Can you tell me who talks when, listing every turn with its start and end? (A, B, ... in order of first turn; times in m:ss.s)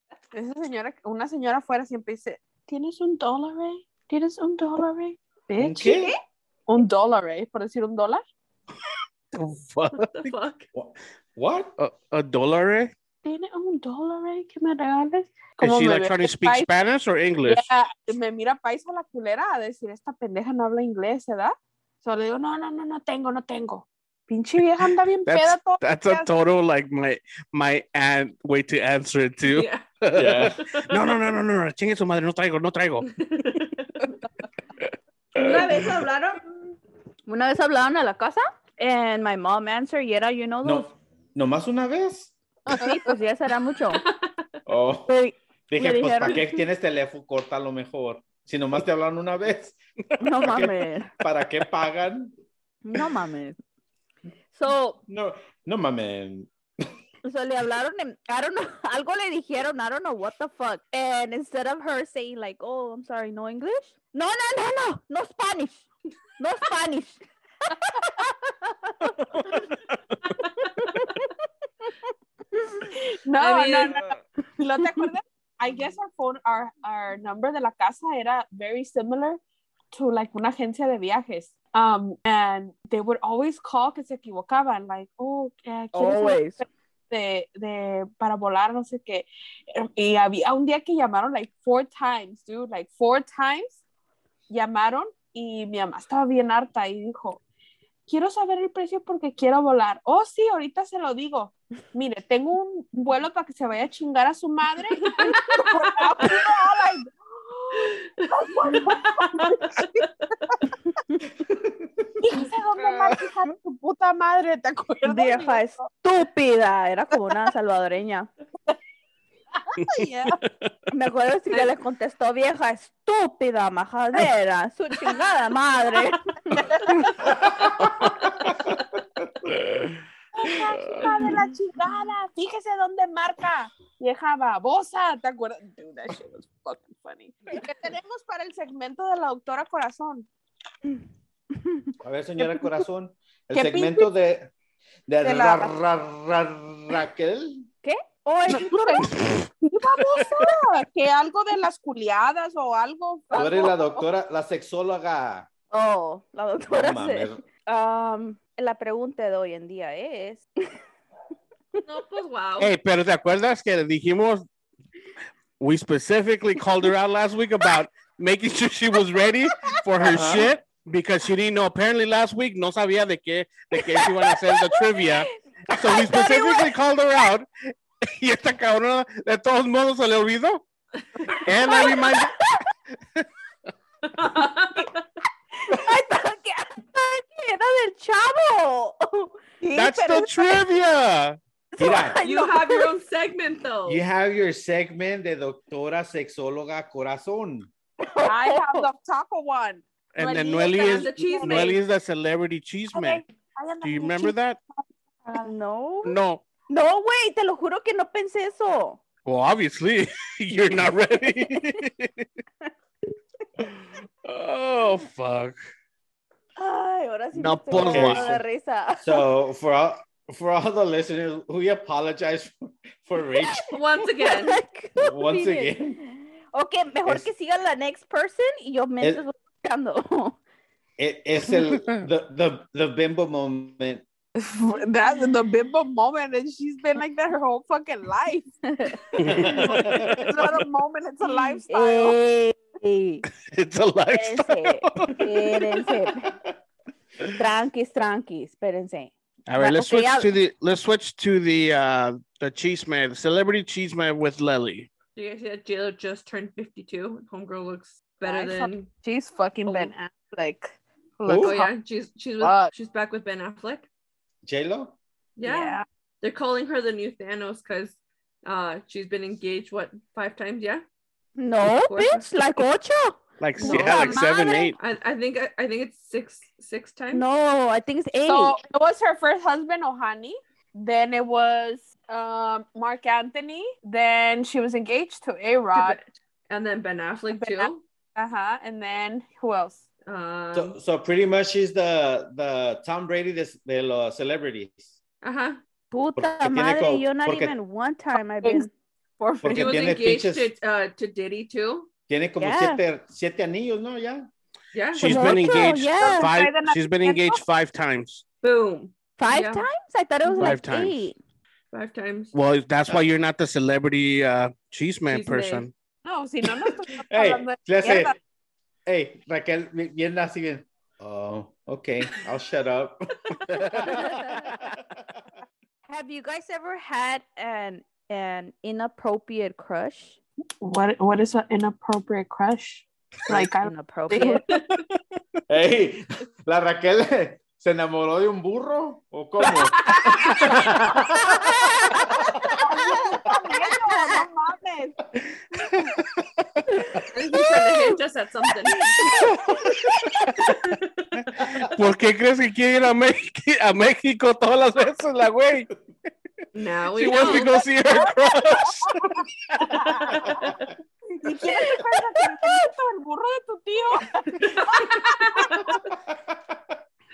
0:00.3-0:06.0 A
0:05.6-0:06.1 B
0:06.7-0:08.2 A
0:09.3-0:10.3 C
0:10.0-0:10.6 D
0:10.7-0:11.7 B
0:11.8-0:12.9 C
0:13.2-0:16.7 A
0:15.6-0:17.7 C
0:17.4-0:26.3 A
0:25.3-0:33.1 C
0:29.5-0:29.9 D
0:30.2-0:30.6 B
0:30.6-0:31.0 D
0:33.1-0:33.9 D
0:34.8-0:36.0 C
0:35.4-0:36.4 E
0:37.3-0:40.9 E
0:40.6-0:42.4 B
0:42.7-0:43.1 A
0:42.8-0:44.0 E
0:44.0-0:44.2 D
0:44.7-0:45.1 B
0:45.1-0:46.6 E
0:45.7-0:49.8 B
0:50.2-0:51.1 E
0:50.4-0:52.3 B
0:52.8-0:53.6 E
0:54.5-0:55.0 E
0:55.1-0:56.5 B
0:57.2-1:05.9 E
1:06.4-1:09.6 E
1:09.4-1:09.7 C
1:10.6-1:11.0 D
1:10.6-1:11.3 E
1:12.8-1:14.1 A
1:13.4-1:14.1 D
1:14.6-1:19.4 A
1:19.9-1:33.8 A
1:25.9-1:26.6 E
1:34.5-1:37.4 A
1:38.1-1:50.6 A
1:45.1-1:46.5 D
1:47.8-1:50.1 D
1:51.5-1:52.0 B
1:52.2-1:55.8 A
1:55.0-1:58.3 E
1:59.6-2:00.4 A
1:59.8-2:00.7 C
2:00.9-2:07.3 E
2:06.6-2:07.6 A
2:07.2-2:09.5 B
2:09.5-2:10.0 C
2:10.4-2:20.3 A
2:10.8-2:11.0 C
2:11.0-2:11.4 E
2:22.0-2:24.5 B
2:23.5-2:24.1 A
2:25.1-2:27.7 B
2:25.2-2:25.7 A
2:27.8-2:29.1 E
2:28.5-2:34.0 A
2:29.1-2:29.5 C
2:33.3-2:33.7 E
2:33.3-2:35.5 B
2:35.7-2:40.5 E
2:36.7-2:37.4 B
2:41.9-2:42.7 D
2:42.6-2:44.5 C
2:45.6-2:57.5 C
2:50.0-2:50.5 B
2:53.8-2:56.7 E
2:58.0-3:00.6 C
3:01.3-3:02.4 C
3:01.6-3:02.6 E
3:04.2-3:05.0 D
3:05.6-3:10.6 E
3:09.7-3:11.4 C
3:11.8-3:13.0 E
3:11.8-3:12.2 B
3:12.2-3:14.0 D
3:13.9-3:17.7 B
3:18.0-3:18.9 E
3:18.3-3:21.8 A
3:20.1-3:23.2 C
3:20.8-3:21.8 D
3:22.9-3:24.4 A
3:23.8-3:24.6 C
3:25.3-3:26.2 E
3:26.0-3:26.4 C
3:26.7-3:29.0 E
3:29.2-3:32.3 C
3:34.2-3:35.6 C
3:36.6-3:39.2 E
3:37.3-3:38.3 C
3:37.7-3:38.4 B
3:39.0-3:43.7 B
3:43.7-3:44.6 D
3:44.2-3:50.4 E
3:45.0-3:46.0 B
3:51.0-3:54.0 B
3:54.4-4:02.2 A
3:58.7-3:59.2 E
3:59.2-4:00.5 C
3:59.3-4:00.1 B
4:01.2-4:03.2 E
4:03.4-4:06.0 C
4:04.1-4:06.3 E
4:07.3-4:10.3 E
4:09.5-4:14.9 C
4:15.2-4:18.9 D
4:18.2-4:21.7 A
4:19.6-4:19.9 D
4:21.2-4:21.6 B
4:21.4-4:23.9 D
4:22.4-4:22.7 A
4:24.4-4:25.0 B
4:25.4-4:30.8 D
4:25.4-4:25.8 A
4:31.4-4:34.8 E
4:31.8-4:32.3 D
4:33.4-4:34.8 C
4:33.7-4:34.2 D
4:34.8-4:37.2 D
4:37.1-4:38.6 E
4:38.3-4:46.0 A
4:45.7-4:47.8 D
4:47.3-4:49.8 A
4:50.1-4:50.8 D
4:50.5-4:54.9 B
4:55.2-4:55.6 D
4:55.9-4:58.7 E
4:56.2-4:57.5 B
4:59.2-4:59.7 A
4:59.4-5:01.9 D
4:59.4-5:00.5 B
5:02.1-5:04.3 B
5:02.4-5:02.8 E
5:04.7-5:05.4 D
5:04.9-5:08.2 C
5:05.0-5:06.3 E
5:06.0-5:07.4 A
5:08.4-5:09.7 D
5:09.2-5:11.2 E
5:10.4-5:11.1 C
5:11.7-5:12.3 D
5:12.3-5:15.7 C
5:15.1-5:15.7 D
5:16.0-5:18.2 A
5:17.0-5:18.2 B
5:18.9-5:25.1 B
5:23.6-5:23.9 C
5:23.8-5:24.2 E
5:25.9-5:30.2 E
5:30.6-5:34.4 A
5:33.3-5:34.4 E
5:34.5-5:34.8 D
5:35.5-5:42.6 B
5:39.8-5:40.2 D
5:41.3-5:44.2 E
5:42.6-5:45.0 A
5:45.6-5:46.1 C
5:47.1-5:49.0 D
5:49.0-5:49.9 E
5:49.0-5:50.5 C
5:50.5-5:51.2 D
5:51.4-5:55.7 C
5:56.5-5:57.5 D
5:57.0-5:59.6 C
5:57.1-5:58.1 A
5:59.7-6:00.4 E
6:00.1-6:00.4 D
6:01.1-6:05.6 A
6:01.4-6:02.6 E
6:04.4-6:05.8 D
6:06.1-6:06.6 B